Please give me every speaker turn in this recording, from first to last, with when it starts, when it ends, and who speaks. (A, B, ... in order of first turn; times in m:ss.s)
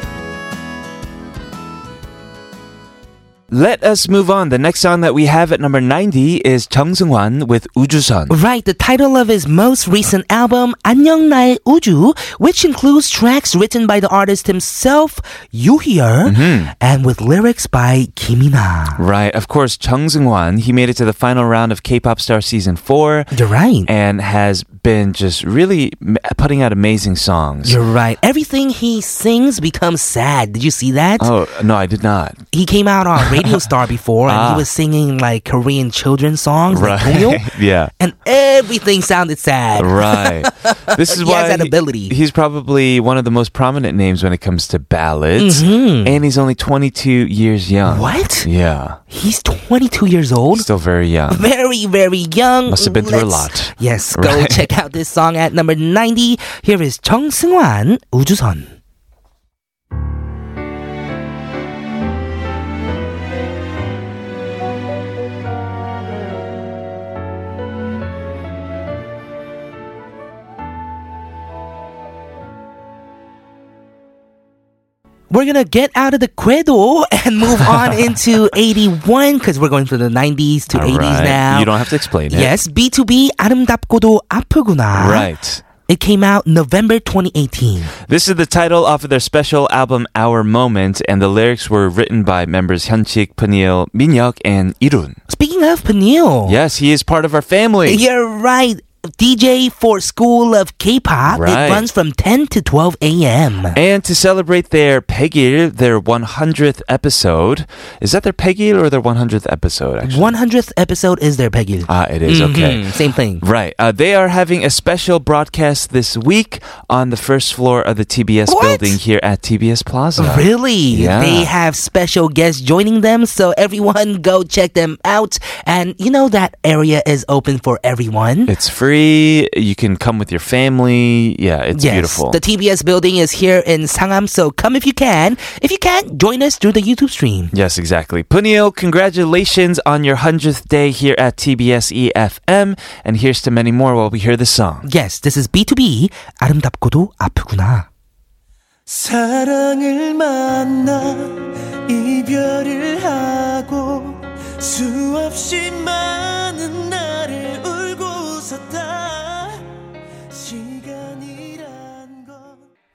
0:03.5-0:08.4 A
0:08.3-0:19.0 B
0:16.2-0:16.7 A
0:19.0-0:23.3 A
0:23.3-0:23.9 B
0:23.9-0:27.8 A
0:27.6-0:31.3 B
0:31.2-0:32.4 A
0:32.5-0:37.4 B
0:33.2-0:33.6 A
0:34.3-0:34.7 A
0:36.7-0:37.9 A
0:38.0-0:42.1 B
0:39.8-0:49.0 A
0:45.4-0:46.2 B
0:47.9-0:48.5 B
0:49.1-0:50.7 B
0:50.5-0:51.4 A
0:51.3-0:58.7 B
0:52.7-0:54.7 A
1:15.3-1:21.7 B
1:17.5-1:18.2 A
1:20.7-1:22.5 A
1:22.3-1:25.3 B
1:24.9-1:25.6 A
1:25.9-1:27.9 B
1:28.0-1:35.2 A
1:35.3-1:36.6 B
1:36.5-1:38.0 A
1:37.9-1:43.8 B
1:41.3-1:41.9 A
1:43.7-1:50.3 A
1:50.0-1:53.4 B
1:51.9-2:01.5 A
1:58.5-1:59.0 B
2:00.2-2:08.5 B
2:08.5-2:12.4 A
2:11.8-2:17.5 B
2:17.5-2:24.9 A
2:24.8-2:27.9 B
2:28.9-2:39.6 C
2:40.3-2:42.6 C